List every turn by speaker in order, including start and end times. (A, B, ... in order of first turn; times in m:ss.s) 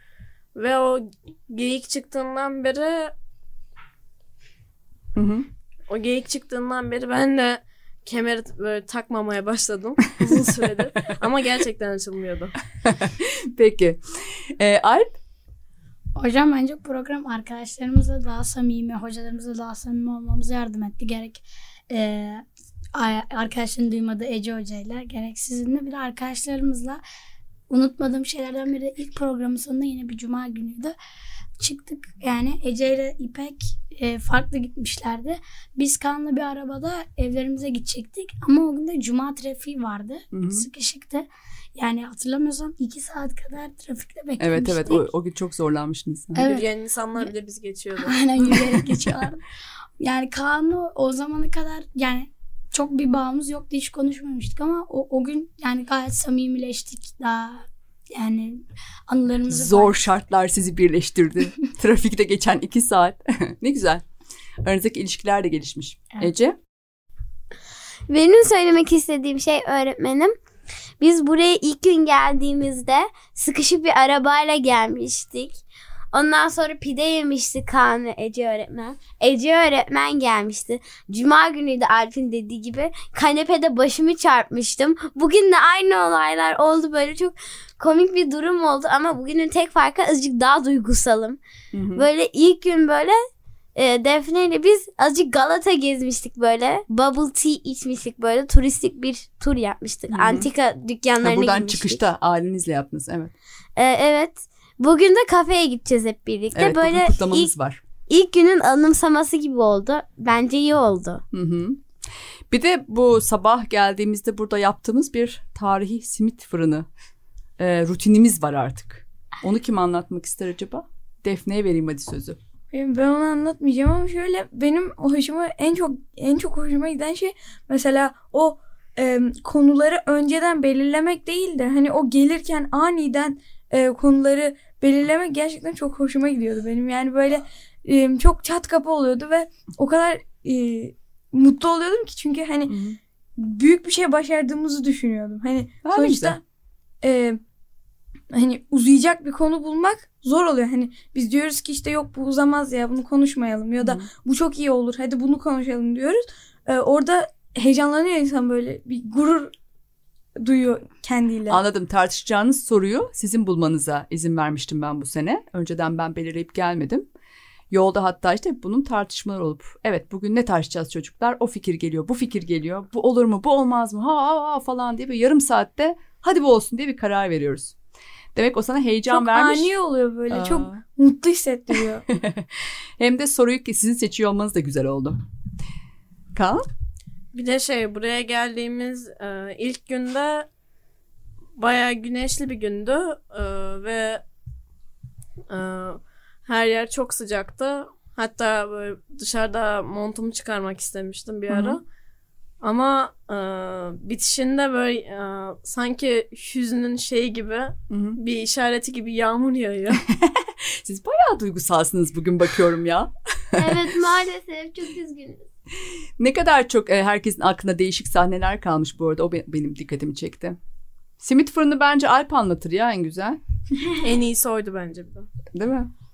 0:00.6-0:03.1 A
0:05.2-0:05.5 B
0:05.9-0:12.6 A
0:10.3-0:10.5 B
0:12.9-0:15.2 B
0:16.2-0:27.0 C
0:27.7-0:31.0 C
0:31.6-0:45.1 C
0:40.3-0:40.7 B
0:44.4-0:46.5 B
0:46.4-0:46.7 C
0:46.4-0:48.2 A
0:48.0-0:49.4 C
0:50.0-1:00.0 C
0:59.5-1:04.0 B
1:04.6-1:06.6 B
1:08.1-1:10.4 D
1:11.0-1:31.4 D
1:31.7-1:32.1 B
1:32.0-1:33.2 D
1:33.8-1:42.0 D
1:40.1-1:40.5 B
1:41.2-1:43.3 B
1:43.8-1:47.5 D
1:46.6-1:47.8 B
1:48.1-1:51.2 D
1:51.3-1:51.8 B
1:52.5-1:56.9 B
1:57.6-2:02.4 B
2:02.7-2:22.8 E
2:22.7-2:23.0 B
2:23.4-2:26.4 E
2:25.8-2:26.4 B
2:27.0-2:27.4 E
2:28.3-2:39.5 E
2:33.8-2:34.1 B
2:40.4-2:41.6 E
2:41.5-2:47.1 B
2:47.7-2:57.8 B
2:58.4-2:59.8 B
2:59.1-3:02.0 E
3:00.3-3:00.8 B
3:02.1-3:05.2 B
3:06.4-3:06.6 B
3:07.3-3:10.5 A
3:11.6-3:14.2 A
3:15.5-3:21.8 A
3:21.5-3:21.8 B
3:22.6-3:30.0 A
3:27.9-3:28.2 B
3:30.1-3:33.9 B
3:33.6-3:35.4 D
3:36.2-3:40.6 B
3:41.2-3:43.4 B
3:44.0-3:45.3 A
3:45.6-3:45.9 B